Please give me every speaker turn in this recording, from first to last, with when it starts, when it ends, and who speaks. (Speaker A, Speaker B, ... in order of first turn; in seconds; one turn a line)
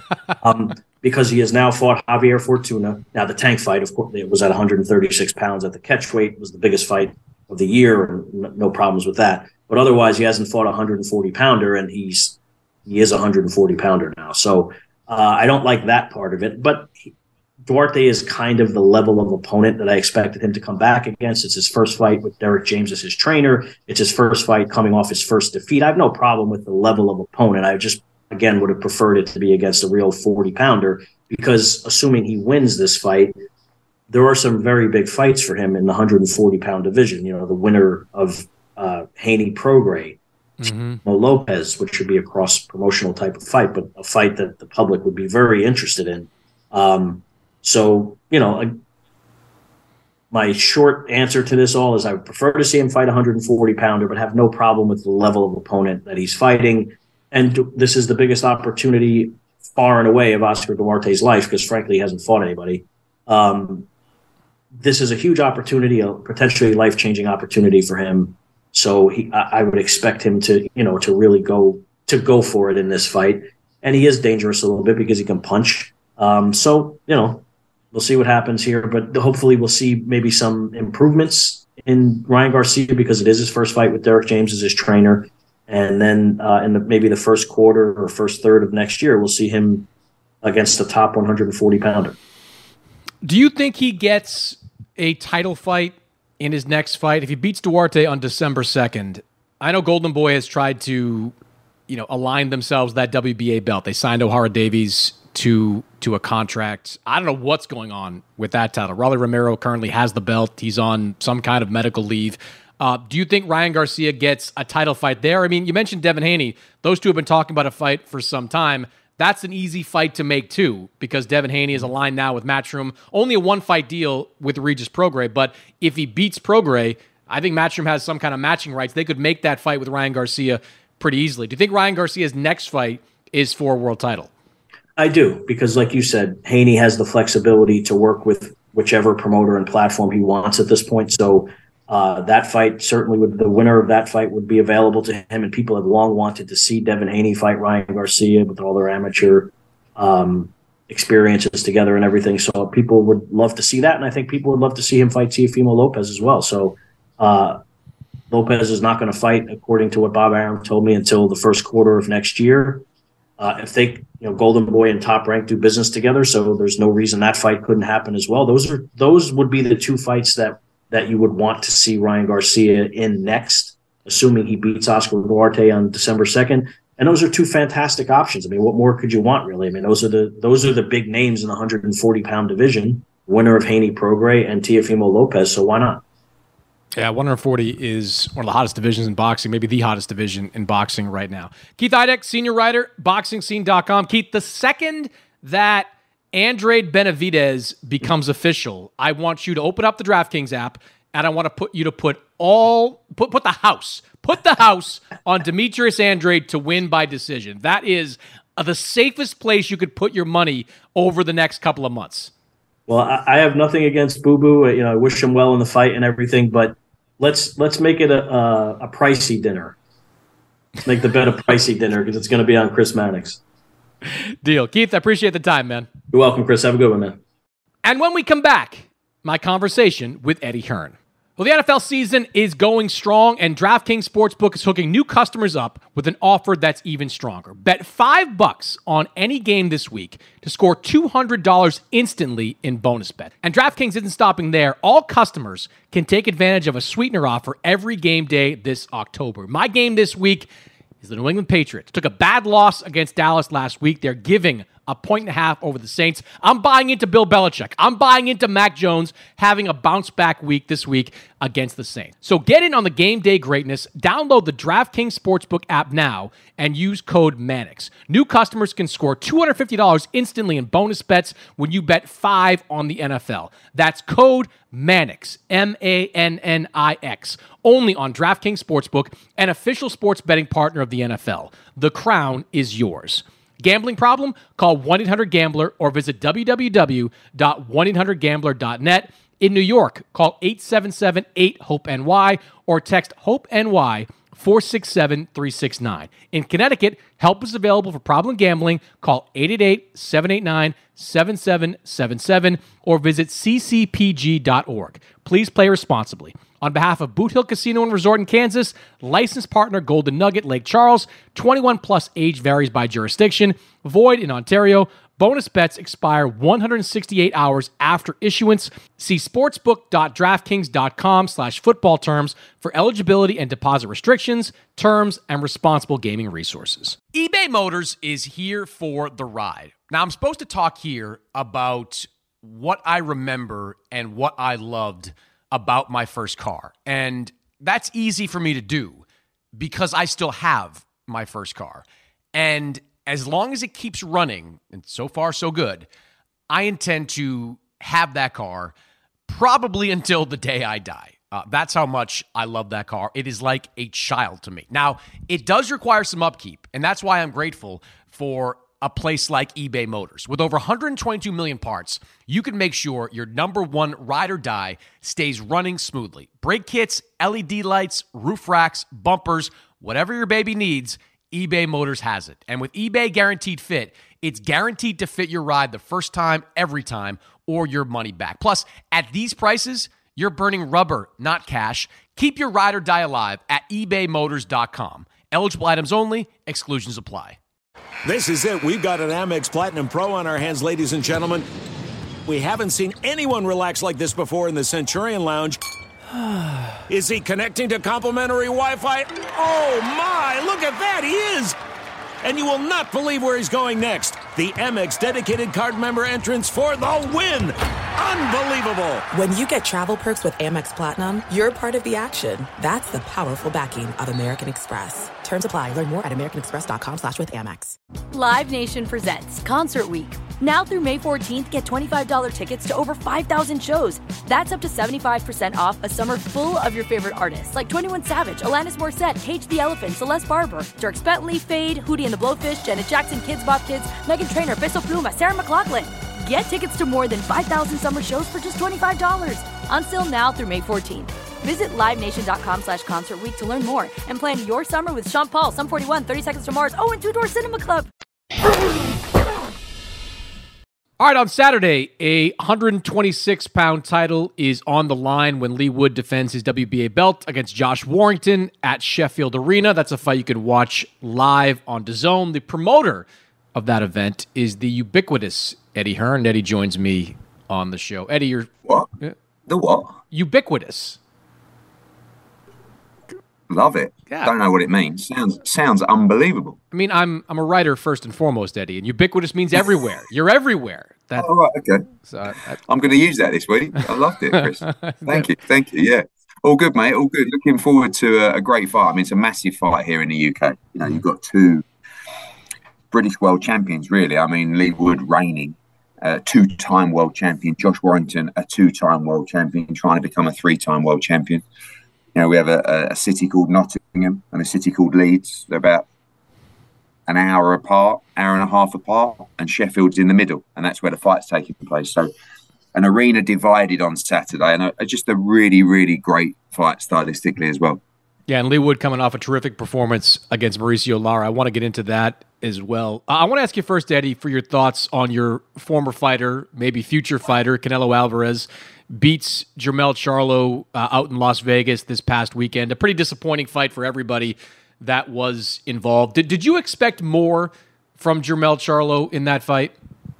Speaker A: 0.4-17.1
Speaker A: 17.6-33.4
Speaker A: 34.1-40.2
Speaker B: 40.6-41.0
Speaker A: 41.0-48.8
Speaker A: 50.3-63.9
Speaker A: 64.8-89.9
Speaker A: 90.4-92.2
Speaker B: 93.2-101.3
Speaker B: 101.9-134.3
Speaker A: 135.0-157.6
Speaker A: 158.3-162.8
Speaker A: 163.4-186.0
Speaker B: 187.0-212.3
Speaker A: 212.9-219.7
Speaker A: 220.8-223.4
Speaker B: 224.1-225.9
Speaker A: 226.1-227.2
Speaker B: 227.8-250.5
Speaker B: 251.0-339.0
Speaker B: 339.6-345.9
Speaker B: 346.5-348.7
Speaker B: 349.3-387.4
Speaker C: 388.0-391.5
Speaker C: 392.2-395.6
Speaker C: 396.9-401.6
Speaker C: 402.2-409.0
Speaker D: 409.1-417.8
Speaker E: 418.1-447.9
Speaker B: 451.0-468.5
Speaker F: 468.6-468.9
Speaker F: 469.5-470.0
Speaker B: 470.1-471.0
Speaker F: 473.5-476.6
Speaker B: 476.7-481.3
Speaker F: 481.1-481.9
Speaker B: 482.1-482.6
Speaker F: 482.6-491.6
Speaker B: 484.8-485.3
Speaker F: 492.9-501.4
Speaker F: 502.1-505.9
Speaker F: 507.1-512.1
Speaker F: 512.7-517.8
Speaker B: 518.3-539.7